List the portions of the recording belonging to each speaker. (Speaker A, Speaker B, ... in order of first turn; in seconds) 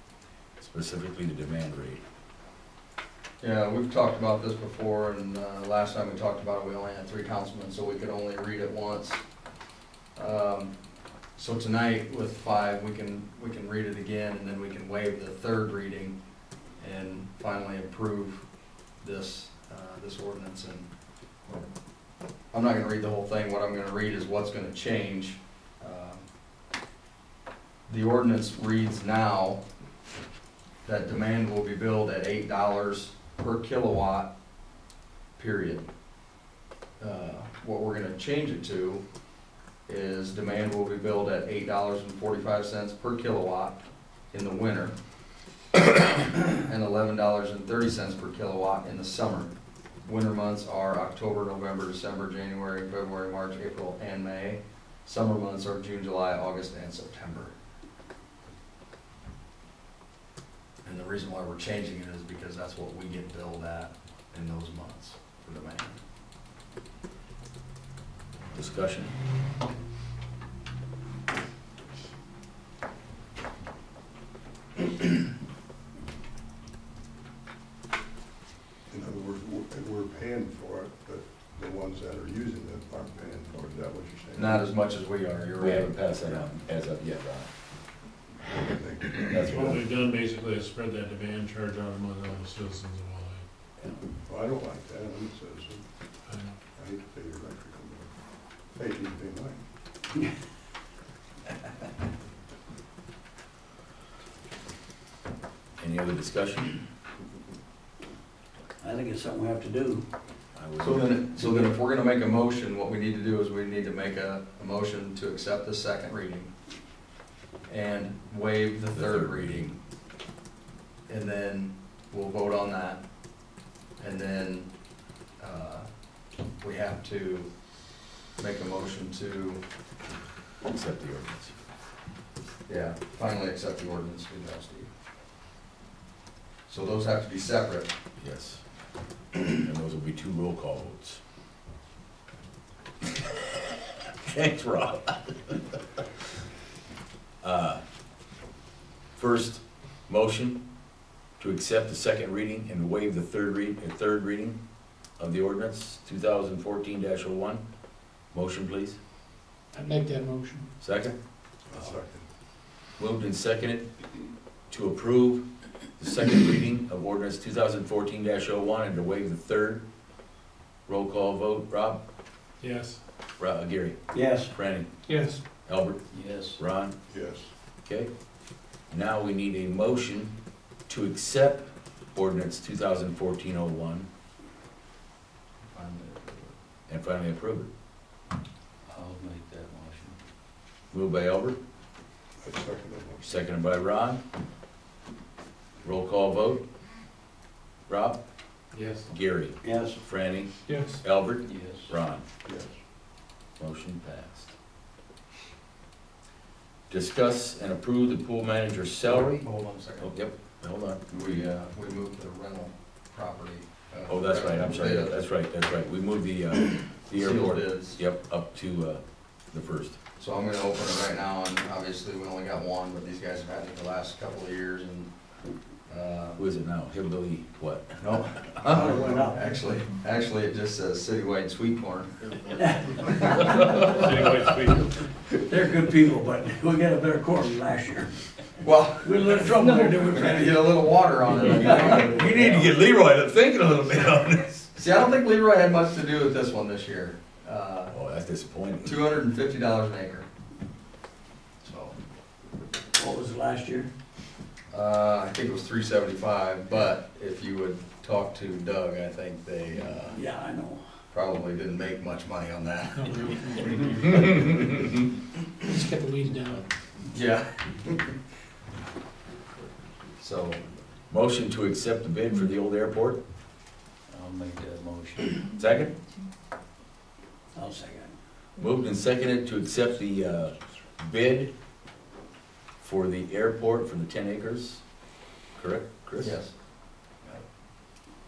Speaker A: 0.6-2.0, 68.5-69.1, 85.6-87.5, 89.3-89.8, 105.8-106.8, 110.5-111.2, 118.9-119.7, 130.7-131.6, 138.2-138.6, 139.5-141.2, 144.2-145.6, 147.4-147.8, 149.2-150.7, 151.4-154.6, 155.2-157.6, 158.3-159.0, 160.8-161.2, 163.0-163.9, 164.7-169.8, 170.9-172.0, 173.4-176.9, 177.8-178.1, 178.9-180.3, 180.9-184.1, 186.9-187.7, 190.9-191.6, 193.2-194.2, 195.8-196.6, 197.9-198.2, 199.1-202.2, 203.6-204.5, 206.9-209.5, 210.0-211.0, 214.1-220.0, 226.4-228.0, 241.7-244.8, 247.9-249.0, 264.6-264.9, 271.1-273.2, 275.6-275.9, 278.6-281.5, 282.8-284.8, 285.6-286.4
Speaker B: 3.4-9.2, 10.2-10.7, 11.4-16.2, 16.8-18.4, 19.0-20.9, 22.5-26.2, 27.9-29.6, 30.9-34.3, 35.4-35.9, 37.0-39.0, 39.9-45.0, 45.8-49.5, 50.0-57.5, 60.8-66.0, 84.3-86.0, 110.8-116.5, 117.7-119.8, 121.1-123.0, 124.0-124.7, 125.4-125.9, 126.6-127.5, 128.4-129.6, 132.7-134.9, 136.7-137.9, 185.7-186.5, 209.1-210.2, 211.1-215.2, 217.1-218.0, 220.2-225.1, 225.9-226.4, 228.0-233.7, 238.6-239.3, 239.8-242.5, 244.8-247.9, 248.8-250.3, 251.6-251.9, 254.7-260.2, 261.1-264.5, 267.1-268.2, 270.2-270.6, 286.2-286.6
Speaker C: 78.9-84.6, 88.5-89.7, 94.2-95.8, 96.8-98.1, 98.7-99.6, 161.7-162.3, 177.1-177.5, 192.4-193.3, 202.4-202.8
Speaker D: 89.5-93.5, 96.3-96.6, 198.7-199.0, 234.0-234.9
Speaker E: 108.8-110.0, 174.1-174.6, 176.1-176.6, 188.9-190.2, 199.6-200.0, 201.4-201.9, 228.6-229.4, 232.6-234.0, 235.4-238.1, 239.0-242.7, 252.9-253.9, 260.1-260.8, 274.1-275.5, 277.5-278.2
Speaker F: 159.7-160.7, 172.6-173.0, 175.1-175.4, 200.7-201.0, 263.0-264.8, 265.7-266.6